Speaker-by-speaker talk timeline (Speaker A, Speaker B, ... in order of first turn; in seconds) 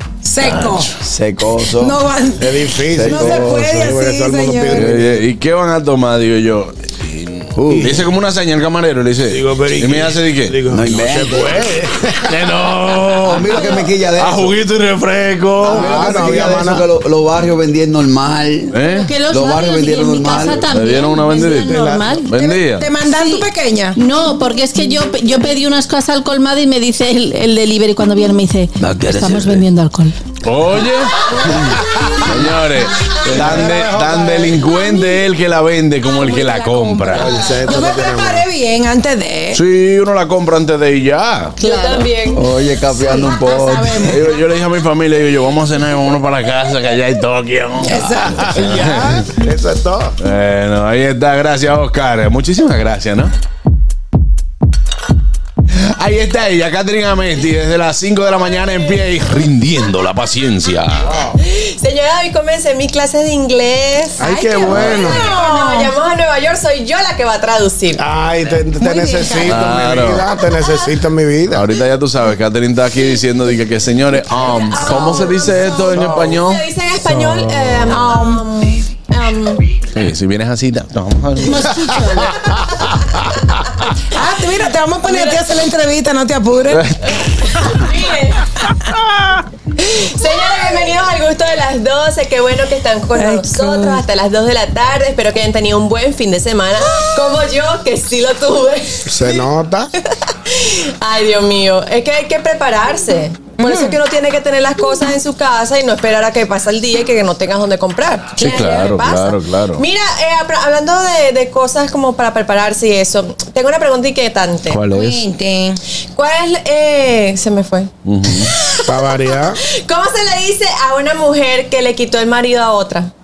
Speaker A: 0.2-0.9, 1.8-4.9, 22.4-24.0, 34.7-35.2, 36.1-39.6, 42.9-44.2, 47.9-48.5, 64.2-65.9, 68.8-69.6, 77.9-78.4, 84.1-86.8, 93.2-94.0, 103.6-104.0, 108.4-108.9, 114.9-115.8
Speaker B: 0.4-0.9, 4.7-10.6, 12.3-16.4, 18.7-19.1, 20.7-22.9, 28.8-29.6, 30.4-31.3, 32.2-37.5, 39.5-41.6, 44.0-49.2, 50.2-53.3, 55.8-61.2, 69.5-70.3, 71.5-76.6, 77.2-77.9, 80.0-81.6, 86.7-87.2, 108.4-109.8, 114.7-115.3, 118.0-118.5
Speaker C: 1.0-2.0, 2.9-3.7, 7.6-8.0, 10.7-11.7, 13.2-14.5, 15.7-20.7, 31.5-32.7, 33.3-33.8, 42.3-44.3
Speaker D: 2.4-5.2, 7.7-8.0, 9.3-12.3, 15.6-16.9, 21.6-22.1, 33.2-34.6, 37.1-38.5, 48.2-50.1, 64.2-65.2, 68.0-71.7, 75.9-76.3, 99.1-99.9, 118.9-119.6
Speaker E: 18.9-22.3, 23.1-30.2, 41.6-42.1, 81.4-82.5
Speaker F: 41.6-42.4, 61.4-68.0, 74.5-79.6, 87.6-88.5, 89.9-99.5, 100.3-114.8, 116.2-123.1